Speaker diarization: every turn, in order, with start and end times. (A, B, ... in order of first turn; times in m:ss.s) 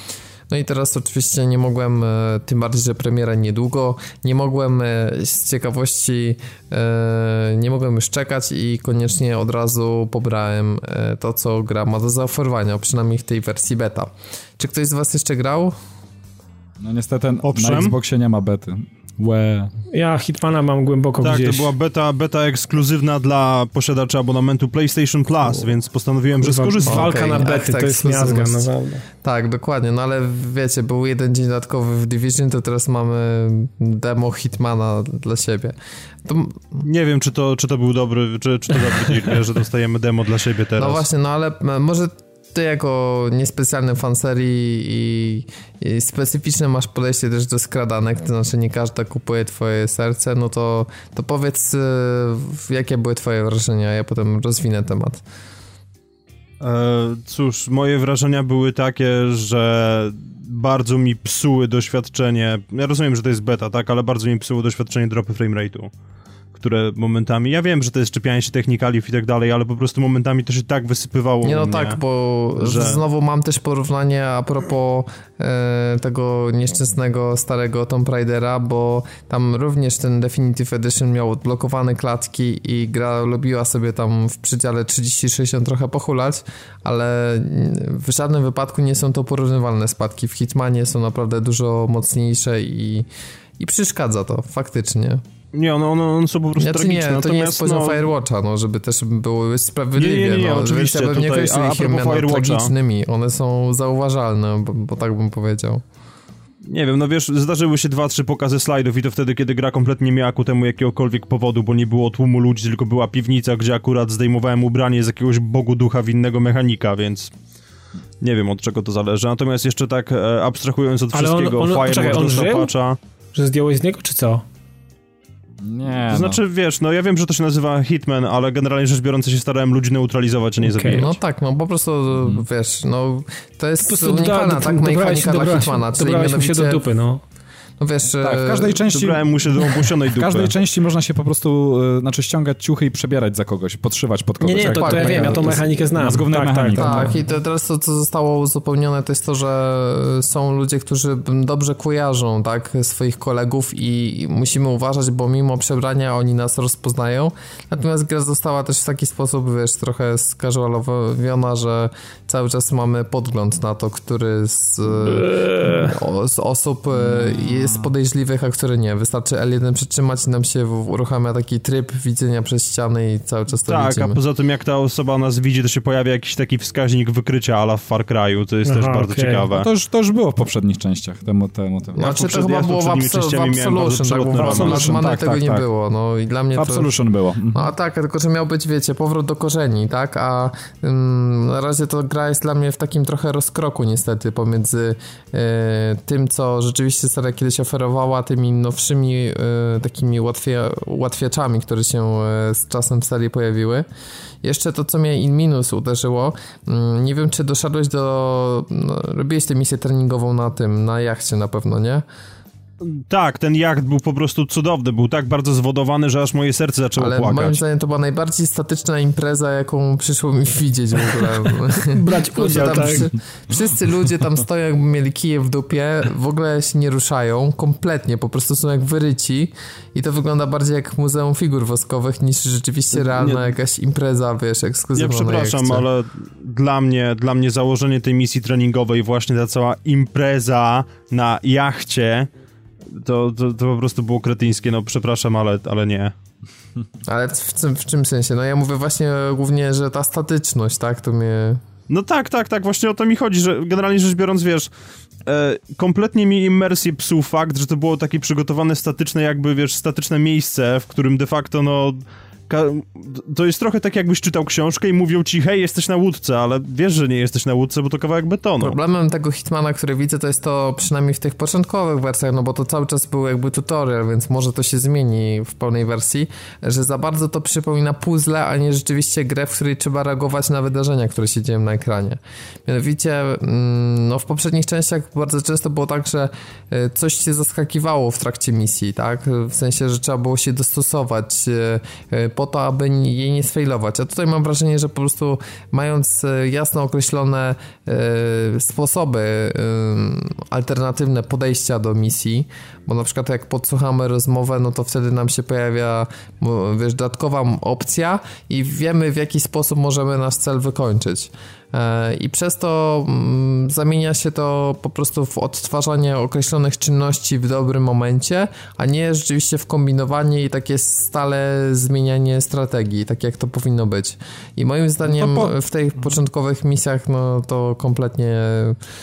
0:00.5-0:15.7 A
0:16.8-0:19.7 B
0:17.4-0:17.9 C
0:19.9-0:21.7 D
0:21.2-0:27.3 C
0:26.4-0:29.0 D
0:26.9-0:28.6 A
0:29.2-0:36.8 A
0:36.8-0:41.0 C
0:40.8-0:55.2 A
0:56.6-1:05.9 C
1:06.5-1:12.0 C
1:11.4-1:33.1 A
1:12.6-1:13.0 C
1:33.6-1:35.2 A
1:35.5-1:38.0 C
1:36.6-1:45.8 A
1:40.0-1:42.7 C
1:46.7-1:57.3 C
1:58.2-2:03.0 C
2:01.1-2:02.7 D
2:03.3-2:04.4 D
2:05.6-2:06.4 B
2:06.1-2:11.1 C
2:10.6-2:11.0 D
2:10.8-2:16.8 A
2:13.8-2:17.2 D
2:17.8-2:18.8 A
2:18.2-2:27.2 B
2:18.9-2:20.5 C
2:24.4-2:27.1 D
2:24.6-2:25.6 A
2:26.7-2:54.2 A
2:45.0-2:45.9 D
2:47.0-2:47.8 B
2:53.6-2:59.7 C
2:58.6-2:59.4 D
2:59.5-3:02.0 B
3:02.0-3:06.9 A
3:02.0-3:05.1 C
3:04.4-3:05.6 B
3:06.5-3:07.6 B
3:07.5-3:23.8 A
3:24.4-3:32.0 A
3:32.8-3:37.6 C
3:37.0-3:55.8 A
3:41.7-3:43.1 D
3:52.9-3:53.5 C
3:55.0-4:02.3 C
4:02.9-4:06.1 C
4:07.1-4:11.6 A
4:11.9-4:14.7 C
4:15.2-4:28.8 C
4:28.6-5:28.8 A
5:25.0-5:25.5 B